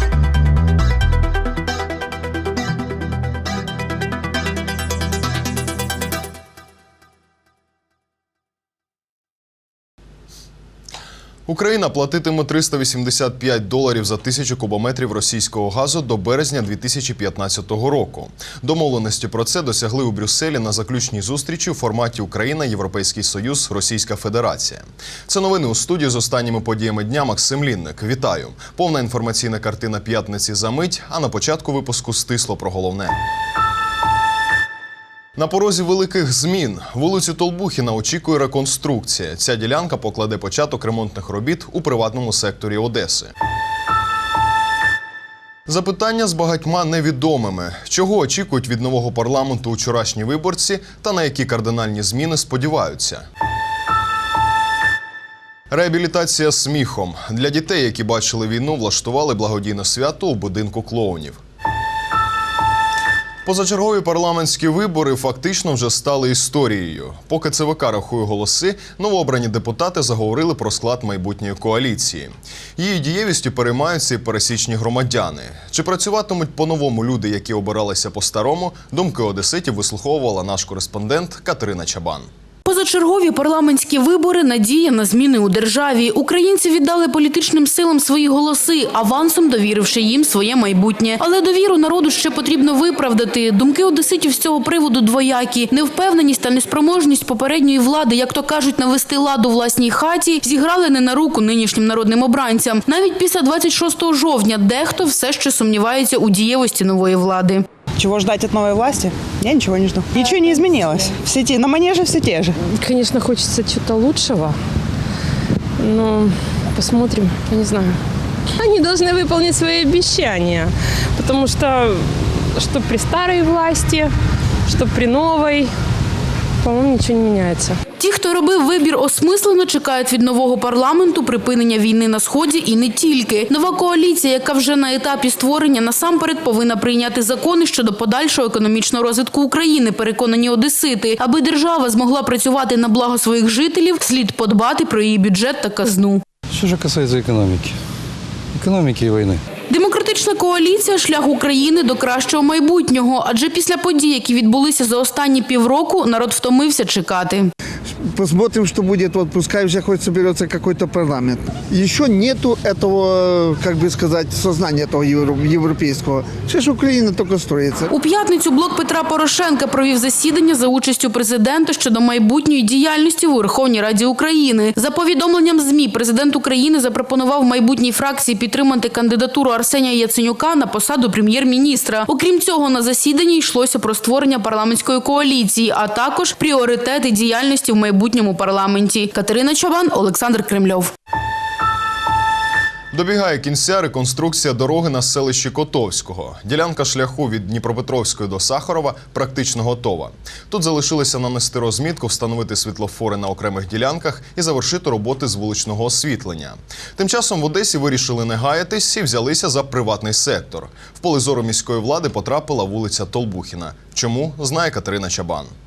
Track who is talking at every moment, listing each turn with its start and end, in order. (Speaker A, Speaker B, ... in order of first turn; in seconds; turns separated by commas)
Speaker A: 11.5-33.2, Speaker A: 35.4-43.3, Speaker A: 45.7-53.2, Speaker A: 55.7-61.4, Speaker A: 63.4-82.3, Speaker B: 82.7-107.6, Speaker C: 108.0-112.6, Speaker D: 112.7-114.6, Speaker D: 115.8-118.0, Speaker D: 118.5-124.1, Speaker D: 124.7-125.7, Speaker D: 126.6-127.8, Speaker B: 128.0-146.2, Speaker E: 146.5-147.7, Speaker E: 148.6-149.4, Speaker B: 149.7-157.5, Speaker F: 158.2-167.9, Speaker B: 167.9-190.9, Speaker A: 192.9-215.5